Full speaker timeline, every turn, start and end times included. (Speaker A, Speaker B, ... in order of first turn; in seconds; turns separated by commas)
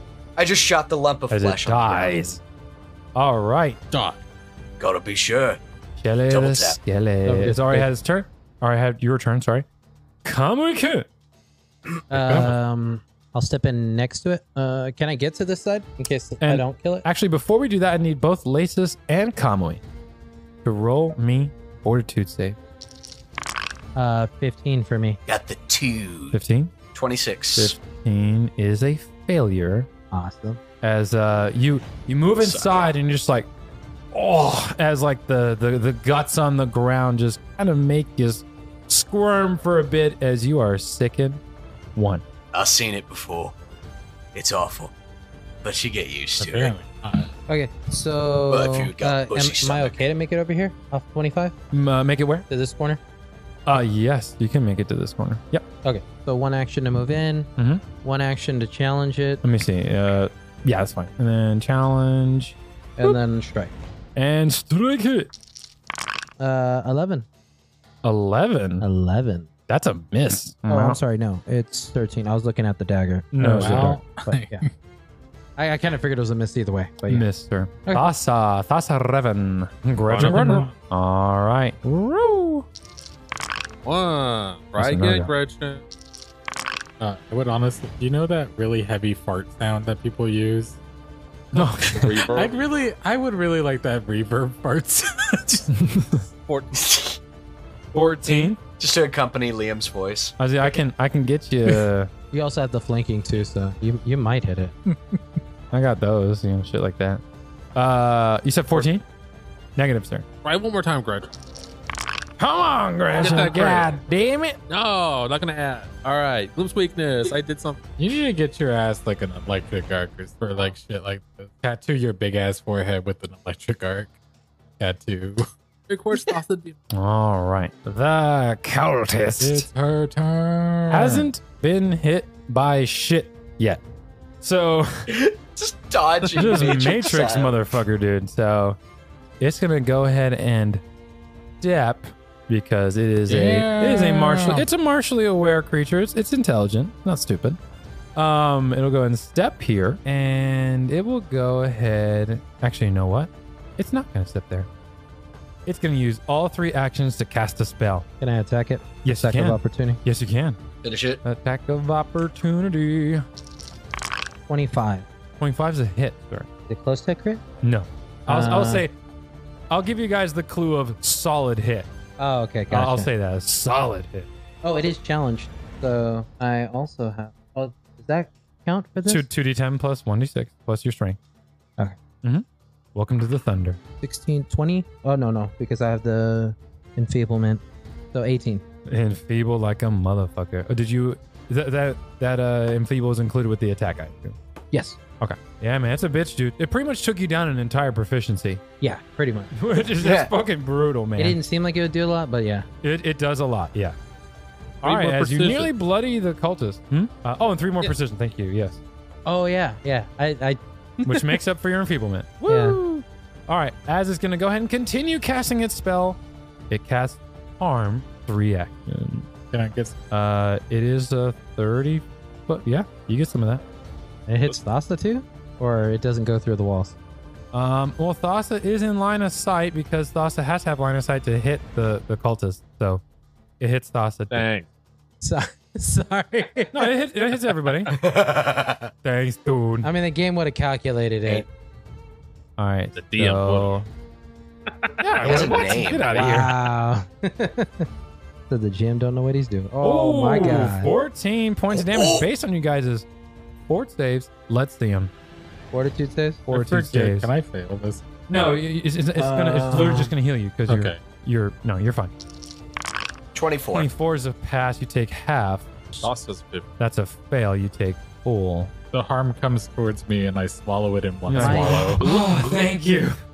Speaker A: 0.4-2.4, Speaker B: 1.3-2.4, Speaker B: 3.1-3.8, Speaker C: 3.9-4.2, Speaker A: 4.8-5.6, Speaker B: 6.0-9.7, Speaker A: 6.3-6.8, Speaker D: 7.2-7.9, Speaker B: 10.2-11.1, Speaker D: 12.1-17.1, Speaker C: 12.1-12.6, Speaker B: 16.4-19.8, Speaker B: 20.6-22.6, Speaker D: 23.9-25.2, Speaker A: 25.3-26.4, Speaker B: 26.3-26.7, Speaker A: 26.9-27.8, Speaker B: 27.6-29.9, Speaker D: 30.1-30.6, Speaker B: 30.8-33.5, Speaker A: 32.4-32.9, Speaker B: 34.1-41.4, Speaker B: 42.0-42.2, Speaker A: 42.5-43.5, Speaker A: 44.3-44.9, Speaker A: 45.6-46.7, Speaker C: 46.4-47.3, Speaker D: 47.5-51.5, Speaker A: 48.5-50.1, Speaker B: 51.7-52.5, Speaker D: 52.5-53.0, Speaker B: 53.7-55.6, Speaker D: 55.8-57.5, Speaker B: 57.6-57.8, Speaker D: 58.0-59.4, Speaker B: 59.4-63.2, Speaker D: 63.0-63.7, Speaker B: 64.2-65.3, Speaker D: 66.4-67.3, Speaker B: 68.0-68.8, Speaker D: 68.8-69.5, Speaker B: 69.7-71.0, Speaker D: 70.7-74.7, Speaker B: 73.3-74.0, Speaker C: 73.4-74.7, Speaker D: 75.6-77.3, Speaker B: 77.1-82.7, Speaker C: 80.1-80.7, Speaker E: 83.8-85.8, Speaker B: 84.8-85.3, Speaker C: 87.0-90.8, Speaker B: 91.5-92.3, Speaker E: 91.9-92.7, Speaker C: 92.3-95.7, Speaker B: 95.8-96.2, Speaker E: 96.5-96.8, Speaker A: 96.8-97.2, Speaker B: 97.9-98.6, Speaker A: 98.8-100.4, Speaker B: 100.4-102.1, Speaker D: 102.3-104.8, Speaker B: 105.7-107.2, Speaker B: 107.8-109.0, Speaker B: 109.8-110.3, Speaker E: 110.4-111.3, Speaker B: 112.4-114.6, Speaker E: 113.1-113.9, Speaker E: 114.7-117.8, Speaker C: 118.0-124.1, Speaker C: 124.8-125.5, Speaker E: 125.9-126.8, Speaker B: 126.9-129.7, Speaker C: 129.4-131.3, Speaker B: 130.9-133.8, Speaker B: 134.4-135.1, Speaker A: 135.1-137.6, Speaker B: 136.3-138.8, Speaker B: 139.4-140.8, Speaker B: 141.6-147.6, Speaker C: 143.3-144.7, Speaker B: 148.2-154.7, Speaker B: 155.7-158.1, Speaker D: 158.2-160.0, Speaker B: 159.0-160.6, Speaker A: 160.8-161.2, Speaker B: 161.2-163.3, Speaker D: 164.5-165.1, Speaker B: 165.4-166.5, Speaker D: 166.7-167.4, Speaker B: 167.6-168.9, Speaker D: 168.3-168.8, Speaker B: 169.7-171.9, Speaker D: 172.2-173.1, Speaker B: 172.7-174.3, Speaker D: 174.6-179.2, Speaker B: 179.1-181.2, Speaker B: 182.2-183.8, Speaker D: 184.0-187.6, Speaker D: 188.1-188.6, Speaker B: 188.9-194.4, Speaker D: 194.7-195.0, Speaker B: 195.2-198.6, Speaker D: 198.8-199.5, Speaker B: 199.5-201.4, Speaker A: 200.0-200.3, Speaker D: 201.2-202.7, Speaker B: 202.8-204.0, Speaker E: 204.8-205.7, Speaker B: 204.8-208.8, Speaker D: 209.3-211.4, Speaker B: 211.1-219.3, Speaker D: 212.5-212.8, Speaker C: 219.5-220.0, Speaker B: 220.1-223.6, Speaker D: 224.3-227.0, Speaker B: 227.5-233.0, Speaker B: 233.6-234.5, Speaker E: 234.3-234.7, Speaker D: 235.2-236.7, Speaker B: 236.7-237.9, Speaker A: 237.9-238.9, Speaker B: 239.0-239.9, Speaker D: 239.8-241.5, Speaker B: 242.6-243.9, Speaker E: 242.9-243.8, Speaker E: 244.8-246.4, Speaker B: 245.0-246.5, Speaker A: 245.2-246.1, Speaker D: 246.1-247.9, Speaker D: 248.5-250.9, Speaker B: 249.8-253.1, Speaker A: 251.7-252.3, Speaker B: 253.7-255.1, Speaker D: 255.7-256.4, Speaker B: 256.5-257.3, Speaker C: 256.5-258.0, Speaker B: 258.3-262.1, Speaker D: 259.2-260.1, Speaker C: 260.7-261.0, Speaker A: 263.3-263.9, Speaker B: 263.7-266.1, Speaker E: 266.0-266.7, Speaker B: 266.8-268.7, Speaker C: 268.9-272.0, Speaker B: 271.3-273.2, Speaker D: 271.4-271.9